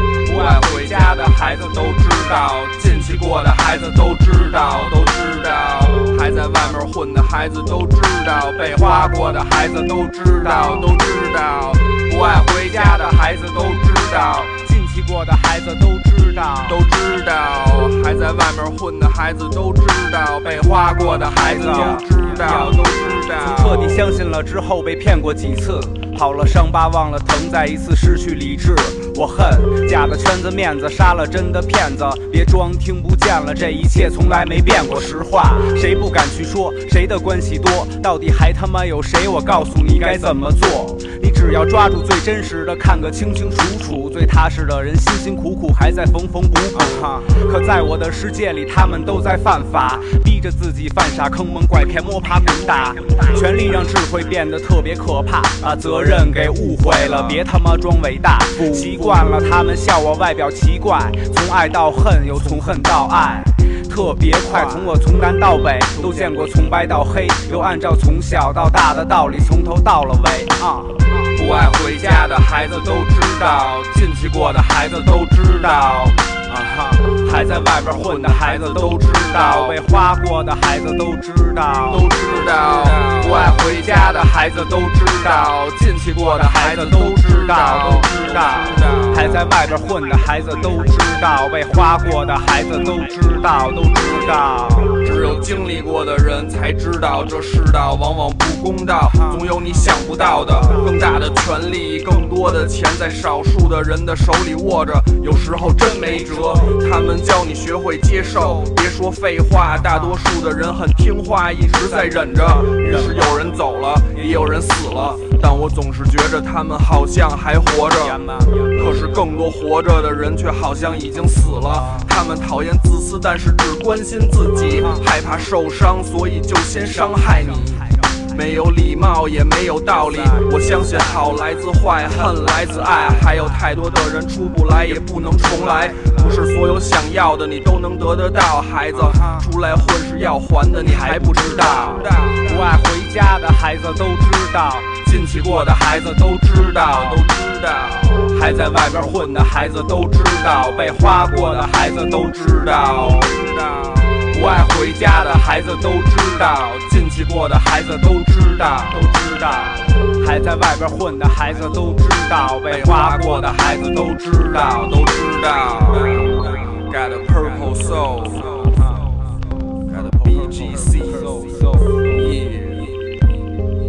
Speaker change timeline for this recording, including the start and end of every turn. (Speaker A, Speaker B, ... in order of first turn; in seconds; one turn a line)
Speaker A: 0.3-14.6
Speaker B: 0.3-2.2
Speaker B: 8.6-9.2
Speaker B: 10.4-10.8
Speaker B: 12.3-13.5
Speaker B: 14.5-16.8
Speaker A: 16.7-24.0
Speaker B: 20.6-22.8
Speaker B: 23.4-71.1
Speaker A: 58.7-59.2
Speaker A: 71.3-76.2
Speaker B: 76.5-85.5
Speaker A: 77.4-79.8
Speaker A: 81.9-84.3
Speaker A: 85.0-89.5
Speaker B: 86.2-95.0
Speaker A: 95.0-142.6
Speaker B: 106.0-106.4
Speaker B: 112.9-113.2
Speaker B: 118.1-118.7
Speaker B: 140.8-147.2
Speaker A: 145.0-150.4
Speaker B: 148.4-153.1
Speaker A: 152.5-159.7
Speaker B: 154.3-155.9
Speaker B: 158.9-164.8
Speaker A: 162.7-163.3
Speaker A: 164.8-169.2
Speaker A: 169.9-172.9